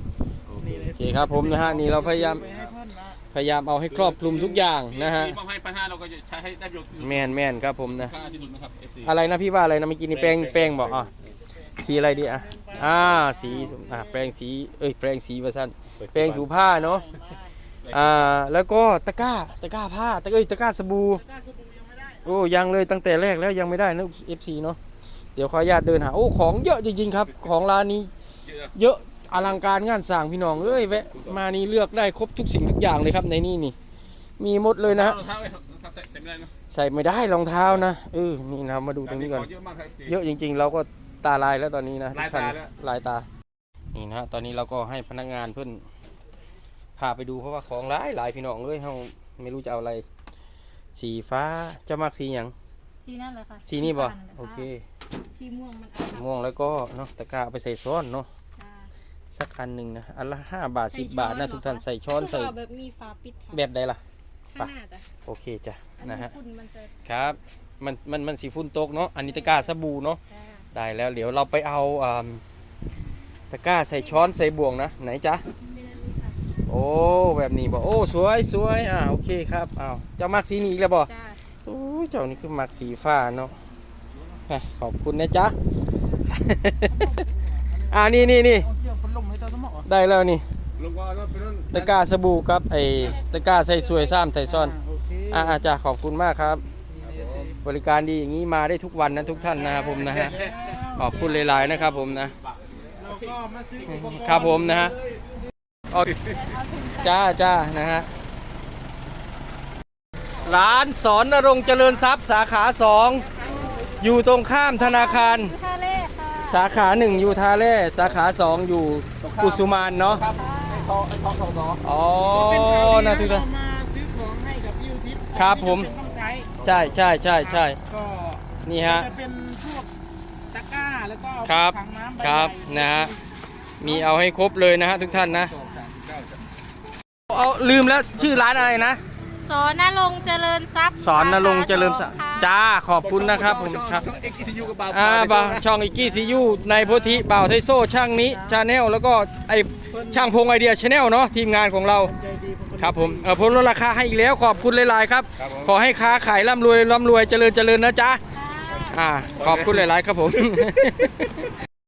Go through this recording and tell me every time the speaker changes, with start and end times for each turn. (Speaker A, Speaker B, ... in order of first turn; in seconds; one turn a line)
Speaker A: 0.5-0.8
Speaker B: 0.6-3.2
Speaker C: 0.9-2.4
Speaker A: 2.3-2.7
Speaker C: 3.3-5.4
Speaker A: 3.9-9.1
Speaker C: 7.0-8.1
Speaker C: 9.0-11.1
Speaker A: 10.1-11.1
Speaker B: 11.8-14.3
Speaker C: 11.8-17.1
Speaker A: 16.0-16.5
Speaker B: 16.4-17.5
Speaker A: 17.8-18.3
Speaker C: 17.9-21.2
Speaker B: 21.1-22.6
Speaker C: 22.2-24.8
Speaker C: 25.3-28.1
Speaker C: 28.7-33.7
Speaker A: 30.7-31.4
Speaker C: 34.4-35.2
Speaker A: 34.9-36.5
Speaker C: 36.7-39.5
Speaker A: 39.0-40.2
Speaker C: 40.0-43.3
Speaker A: 42.1-42.7
Speaker C: 43.9-45.8
Speaker C: 47.0-50.0
Speaker C: 51.0-52.5
Speaker D: 53.0-54.7
Speaker C: 53.6-54.8
Speaker D: 55.3-56.2
Speaker C: 56.0-58.3
Speaker D: 58.6-58.9
Speaker C: 59.3-62.5
Speaker D: 60.9-63.6
Speaker C: 63.5-64.0
Speaker D: 64.5-65.1
Speaker C: 65.2-66.3
Speaker D: 66.0-66.9
Speaker C: 67.0-70.2
Speaker D: 69.3-69.6
Speaker D: 70.3-70.6
Speaker C: 70.7-72.4
Speaker C: 73.5-75.4
Speaker D: 74.0-74.3
Speaker D: 75.6-76.4
Speaker C: 76.7-81.1
Speaker D: 81.1-81.4
Speaker C: 81.6-83.5
Speaker C: 84.5-85.5
Speaker C: 86.2-87.2
Speaker B: 86.9-89.9
Speaker C: 87.9-88.7
Speaker C: 89.8-90.4
Speaker A: 90.8-91.9
Speaker C: 91.7-94.7
Speaker B: 93.0-95.7
Speaker C: 95.3-96.6
Speaker B: 97.0-97.5
Speaker A: 97.1-97.5
Speaker C: 97.6-102.3
Speaker B: 99.5-101.9
Speaker A: 100.1-100.6
Speaker B: 103.0-104.9
Speaker A: 103.0-103.3
Speaker C: 103.8-105.0
Speaker C: 105.9-106.2
Speaker D: 106.2-107.2
Speaker C: 106.9-108.1
Speaker C: 110.4-113.3
Speaker D: 113.3-113.9
Speaker B: 113.3-114.1
Speaker C: 114.0-115.5
Speaker D: 114.7-116.7
Speaker C: 116.5-120.2
Speaker A: 119.2-121.8
Speaker D: 120.3-120.9
Speaker C: 121.8-123.5
Speaker B: 122.3-126.6
Speaker C: 125.3-125.9
Speaker C: 126.6-127.8
Speaker A: 126.6-127.1
Speaker B: 127.2-129.9
Speaker C: 128.6-129.1
Speaker B: 130.5-133.1
Speaker C: 131.4-133.1
Speaker C: 133.8-135.5
Speaker B: 133.8-134.1
Speaker B: 135.2-135.9
Speaker A: 135.9-136.3
Speaker C: 137.3-139.0
Speaker D: 139.4-142.5
Speaker C: 141.0-144.1
Speaker A: 143.0-145.8
Speaker C: 144.9-152.1
Speaker B: 145.8-147.5
Speaker B: 148.0-148.6
Speaker B: 149.9-150.3
Speaker B: 152.1-153.5
Speaker C: 152.8-158.2
Speaker A: 155.4-155.7
Speaker D: 158.3-159.7
Speaker C: 158.8-161.5
Speaker A: 159.4-159.8